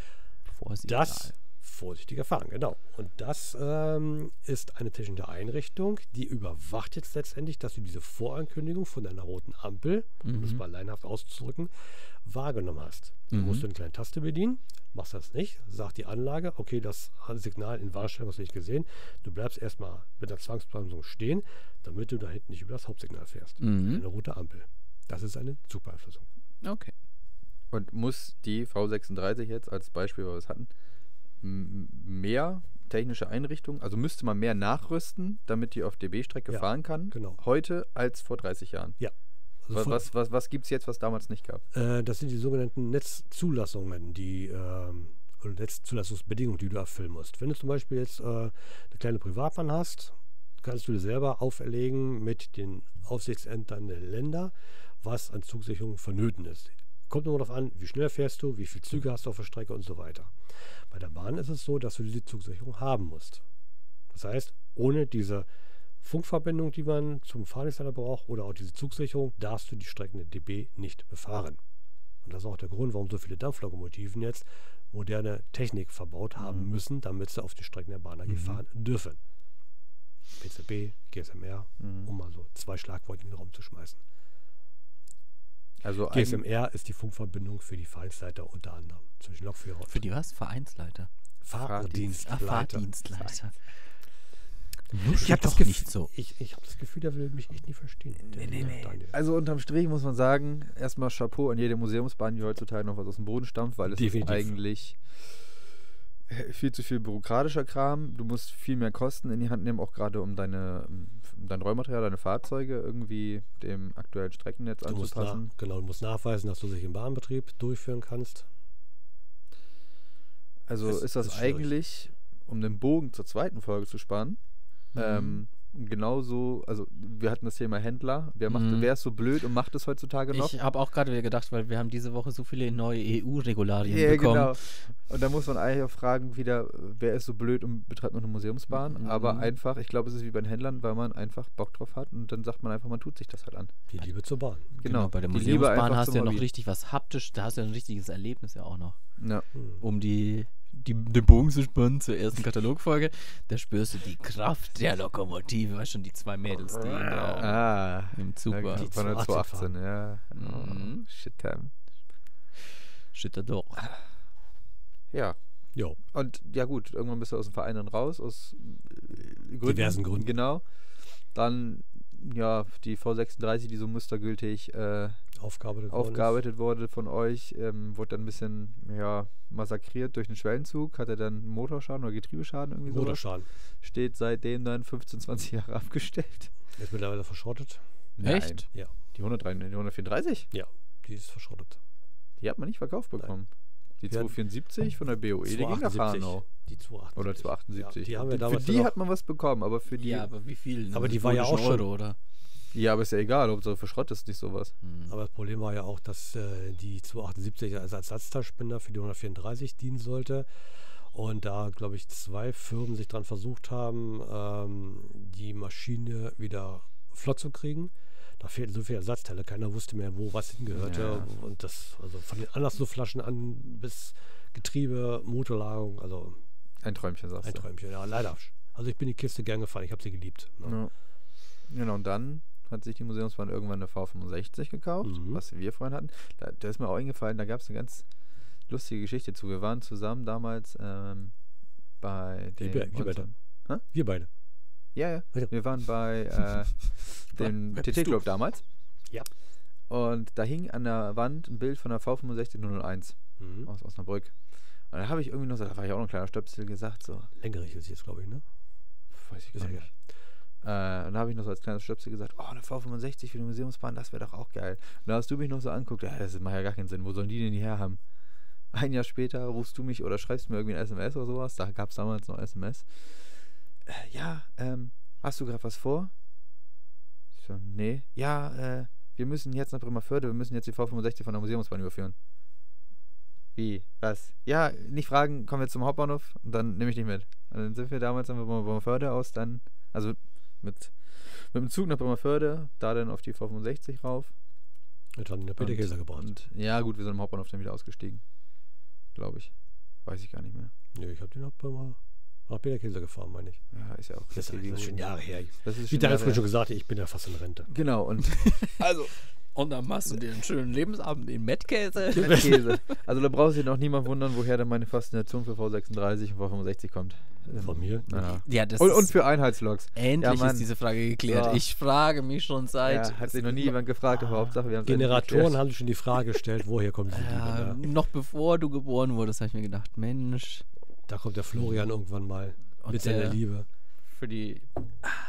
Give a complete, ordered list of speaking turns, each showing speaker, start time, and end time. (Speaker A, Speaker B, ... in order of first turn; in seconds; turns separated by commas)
Speaker A: 0.5-1.3, Speaker B: 0.9-11.7, Speaker A: 10.2-10.6, Speaker B: 12.2-26.2, Speaker A: 13.3-13.6, Speaker A: 23.6-24.0, Speaker A: 26.6-26.9, Speaker C: 27.7-30.7, Speaker C: 31.4-39.0, Speaker B: 36.5-37.4, Speaker B: 39.7-40.0, Speaker C: 39.7-41.6, Speaker B: 41.7-60.3, Speaker B: 60.9-63.4, Speaker B: 64.1-65.5, Speaker B: 66.0-71.6, Speaker B: 72.2-79.2, Speaker C: 76.4-76.7, Speaker B: 80.4-84.0, Speaker C: 81.8-82.1, Speaker C: 85.8-86.4, Speaker B: 86.1-90.0, Speaker A: 89.9-91.1, Speaker B: 91.4-92.9, Speaker C: 91.6-92.0, Speaker A: 91.9-93.5, Speaker A: 94.9-96.1, Speaker B: 95.1-99.1, Speaker C: 98.3-105.0, Speaker B: 103.9-104.5, Speaker C: 106.3-115.5, Speaker B: 114.8-118.5, Speaker C: 120.7-124.4, Speaker B: 120.8-121.7, Speaker A: 124.9-125.4, Speaker C: 124.9-130.6, Speaker A: 128.5-128.9, Speaker A: 130.3-134.6, Speaker C: 133.8-143.8, Speaker A: 138.8-139.5, Speaker B: 143.9-144.7, Speaker A: 144.8-149.0, Speaker C: 144.8-146.4, Speaker C: 149.2-149.4, Speaker B: 149.5-149.8, Speaker A: 149.8-158.9, Speaker C: 157.0-161.7, Speaker B: 158.7-159.7, Speaker A: 160.3-161.1, Speaker A: 163.1-163.9, Speaker C: 165.1-165.4, Speaker C: 166.0-170.6, Speaker B: 169.6-170.3, Speaker C: 171.3-175.2, Speaker B: 175.4-176.4, Speaker C: 175.9-183.2, Speaker B: 182.9-183.5, Speaker C: 183.8-186.5, Speaker B: 186.8-187.8, Speaker C: 188.2-190.5, Speaker A: 188.2-188.7, Speaker B: 190.5-191.8, Speaker C: 192.4-193.5, Speaker C: 194.0-196.4, Speaker B: 195.4-198.9, Speaker C: 197.2-200.3, Speaker A: 200.0-202.2, Speaker B: 200.9-201.9, Speaker C: 202.7-204.7, Speaker A: 204.8-205.1, Speaker B: 205.1-210.5, Speaker B: 211.1-226.4, Speaker C: 220.7-221.3, Speaker C: 226.8-227.7, Speaker B: 227.4-230.8, Speaker C: 230.6-230.9, Speaker C: 231.7-238.1, Speaker B: 235.0-235.4, Speaker C: 238.7-241.3, Speaker C: 242.0-243.8, Speaker B: 242.6-243.3, Speaker B: 243.9-244.3, Speaker C: 244.9-248.6, Speaker A: 247.3-248.2, Speaker C: 249.9-254.3, Speaker B: 253.4-253.7, Speaker C: 254.9-257.3, Speaker B: 257.4-258.4, Speaker C: 259.1-259.9, Speaker B: 259.5-259.9, Speaker C: 260.6-268.0, Speaker C: 268.7-272.9, Speaker C: 273.9-276.1, Speaker C: 277.3-282.1, Speaker C: 283.6-294.3, Speaker B: 295.2-296.3, Speaker C: 295.6-298.2, Speaker C: 299.1-299.5, Speaker C: 300.0-300.7, Speaker B: 300.9-303.6, Speaker C: 303.7-305.1, Speaker B: 304.3-307.7, Speaker C: 305.6-306.4, Speaker C: 307.7-309.1, Speaker A: 308.3-308.8, Speaker A: 309.5-312.8, Speaker C: 312.1-320.7, Speaker B: 312.3-312.5, Speaker B: 317.6-318.3, Speaker A: 318.2-319.2, Speaker A: 319.9-324.5, Speaker C: 321.2-321.6, Speaker C: 322.8-325.6, Speaker B: 324.8-327.8, Speaker A: 327.1-330.6, Speaker B: 331.1-333.7, Speaker A: 332.8-333.4, Speaker A: 334.1-334.7